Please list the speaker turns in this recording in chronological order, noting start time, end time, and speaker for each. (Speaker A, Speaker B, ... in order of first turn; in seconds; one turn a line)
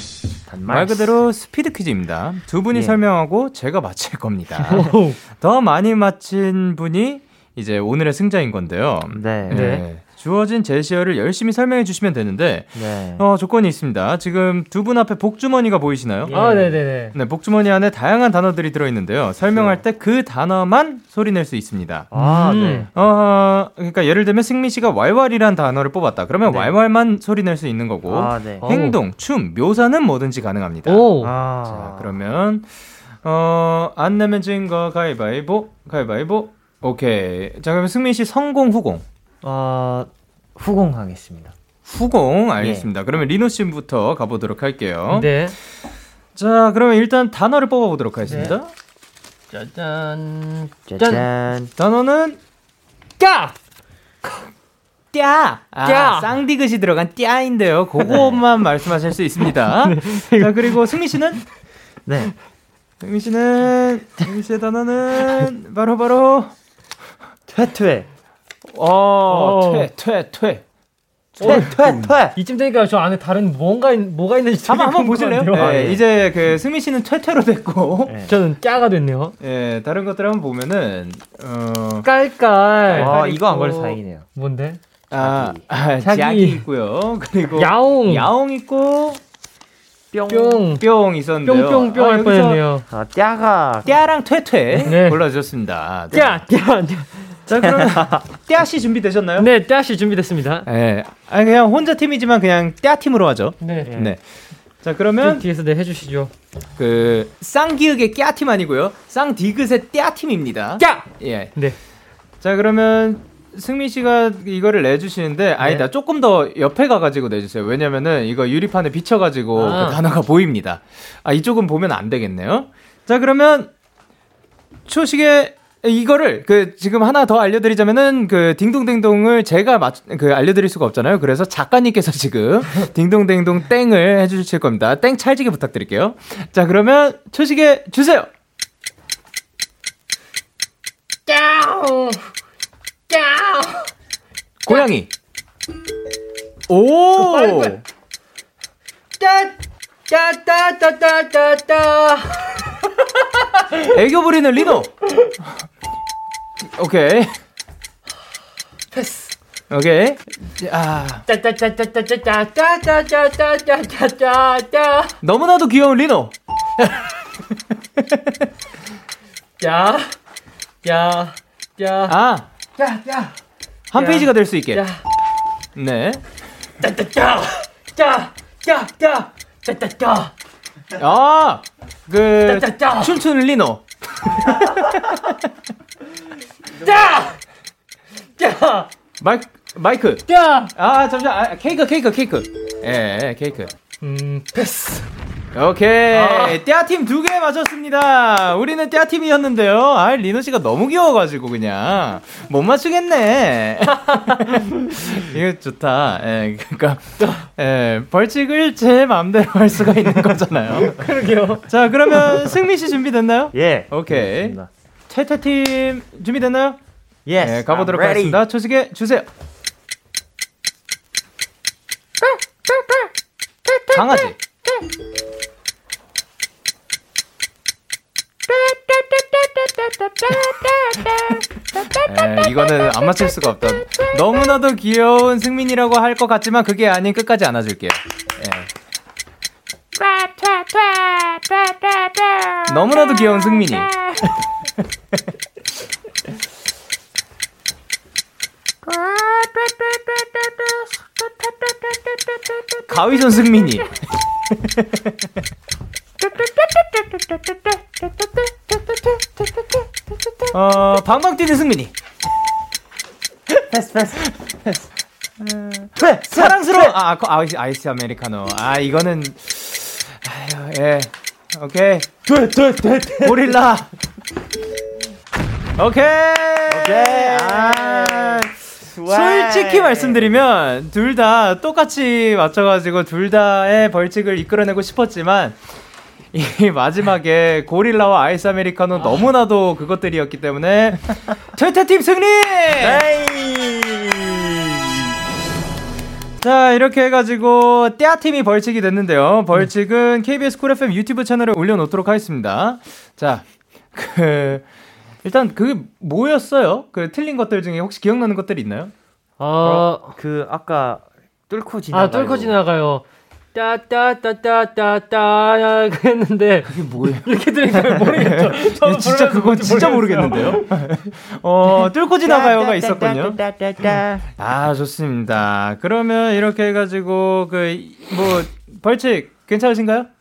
Speaker A: 0.5-1.1
Speaker B: 0.7-16.3
Speaker A: 2.7-3.0
Speaker C: 4.6-5.2
Speaker A: 9.1-9.8
Speaker C: 9.5-9.8
Speaker A: 12.7-13.2
Speaker A: 16.2-16.8
Speaker C: 16.3-17.1
Speaker B: 17.1-22.1
Speaker A: 19.5-19.8
Speaker A: 22.1-22.9
Speaker C: 22.1-22.9
Speaker B: 22.9-32.7
Speaker A: 26.4-26.7
Speaker A: 28.1-28.7
Speaker C: 28.6-28.9
Speaker C: 30.9-31.3
Speaker A: 31.2-32.2
Speaker B: 33.2-39.0
Speaker A: 39.4-41.5
Speaker B: 41.8-45.4
Speaker A: 42.6-42.9
Speaker C: 45.1-45.5
Speaker B: 46.4-48.7
Speaker C: 48.3-48.5
Speaker C: 49.5-51.2
Speaker A: 50.9-51.7
Speaker B: 51.8-52.4
Speaker C: 53.2-53.5
Speaker B: 55.1-61.4
Speaker C: 55.8-56.3
Speaker A: 58.1-58.4
Speaker C: 59.9-60.8
Speaker A: 62.0-62.3
Speaker B: 63.0-66.5
Speaker A: 67.5-68.1
Speaker B: 68.7-70.6
Speaker C: 69.3-69.9
Speaker B: 71.3-72.1
Speaker C: 71.4-75.9
Speaker A: 71.4-72.3
Speaker B: 74.7-78.1
Speaker A: 75.5-76.0
Speaker A: 78.0-78.4
Speaker C: 78.3-79.3
Speaker B: 79.4-82.1
Speaker C: 82.0-84.8
Speaker B: 82.9-83.2
Speaker A: 82.9-84.3
Speaker B: 85.1-89.2
Speaker A: 85.2-85.7
Speaker C: 86.0-86.6
Speaker C: 87.5-88.3
Speaker A: 90.1-90.7
Speaker C: 90.3-90.8
Speaker B: 90.8-92.6
Speaker C: 91.4-92.8
Speaker A: 92.9-93.9
Speaker B: 93.8-96.4
Speaker C: 94.8-95.2
Speaker C: 96.1-97.3
Speaker B: 97.5-99.5
Speaker A: 97.5-98.2
Speaker C: 99.4-100.7
Speaker B: 100.7-104.2
Speaker C: 103.6-103.9
Speaker A: 103.8-104.2
Speaker B: 104.8-105.4
Speaker C: 105.2-106.3
Speaker B: 106.8-111.5
Speaker C: 110.8-111.8
Speaker B: 112.4-123.7
Speaker C: 119.5-120.0
Speaker B: 124.8-138.3
Speaker C: 141.3-142.3
Speaker C: 143.1-143.9
Speaker B: 144.6-145.1
Speaker B: 146.7-147.8
Speaker C: 147.2-147.7
Speaker C: 149.2-149.5
Speaker C: 150.1-152.8
Speaker C: 153.3-153.9
Speaker B: 153.9-154.9
Speaker B: 156.6-157.3
Speaker C: 158.9-159.3
Speaker B: 159.7-161.2
Speaker C: 161.2-165.1
Speaker B: 165.2-166.3
Speaker C: 169.6-170.1
Speaker C: 170.8-172.1
Speaker B: 172.1-172.5
Speaker C: 172.8-173.3
Speaker B: 173.9-174.8
Speaker C: 173.9-175.0
Speaker B: 175.8-176.2
Speaker C: 176.8-180.3
Speaker B: 180.9-185.3
Speaker C: 182.4-183.1
Speaker C: 186.8-187.4
Speaker C: 188.4-188.9
Speaker B: 189.2-193.7
Speaker C: 190.3-190.7
Speaker C: 194.0-195.1
Speaker B: 195.5-210.9
Speaker C: 196.1-196.6
Speaker C: 204.1-204.5
Speaker C: 210.7-211.7
Speaker B: 211.7-214.6
Speaker A: 213.5-214.7
Speaker B: 215.1-216.8
Speaker A: 217.2-218.4
Speaker B: 217.4-219.3
Speaker A: 222.2-223.1
Speaker A: 223.7-224.9
Speaker B: 223.9-224.4
Speaker A: 228.5-232.9
Speaker B: 231.9-238.7
Speaker A: 240.0-244.3
Speaker B: 242.7-243.9
Speaker A: 248.8-252.8
Speaker B: 252.9-254.0
Speaker B: 254.5-255.0
Speaker A: 256.2-260.5
Speaker B: 260.5-261.9
Speaker A: 263.7-264.8
Speaker B: 265.4-272.1
Speaker A: 266.0-266.9
Speaker A: 272.3-273.6
Speaker B: 273.2-273.9
Speaker B: 275.8-285.6
Speaker A: 276.7-280.4
Speaker B: 286.3-293.0
Speaker A: 292.8-295.1
Speaker B: 296.4-304.6
Speaker B: 305.2-308.9
Speaker C: 309.4-310.1
Speaker A: 309.6-312.6
Speaker C: 311.9-320.6
Speaker B: 316.7-323.4
Speaker A: 322.2-324.3
Speaker B: 324.4-330.1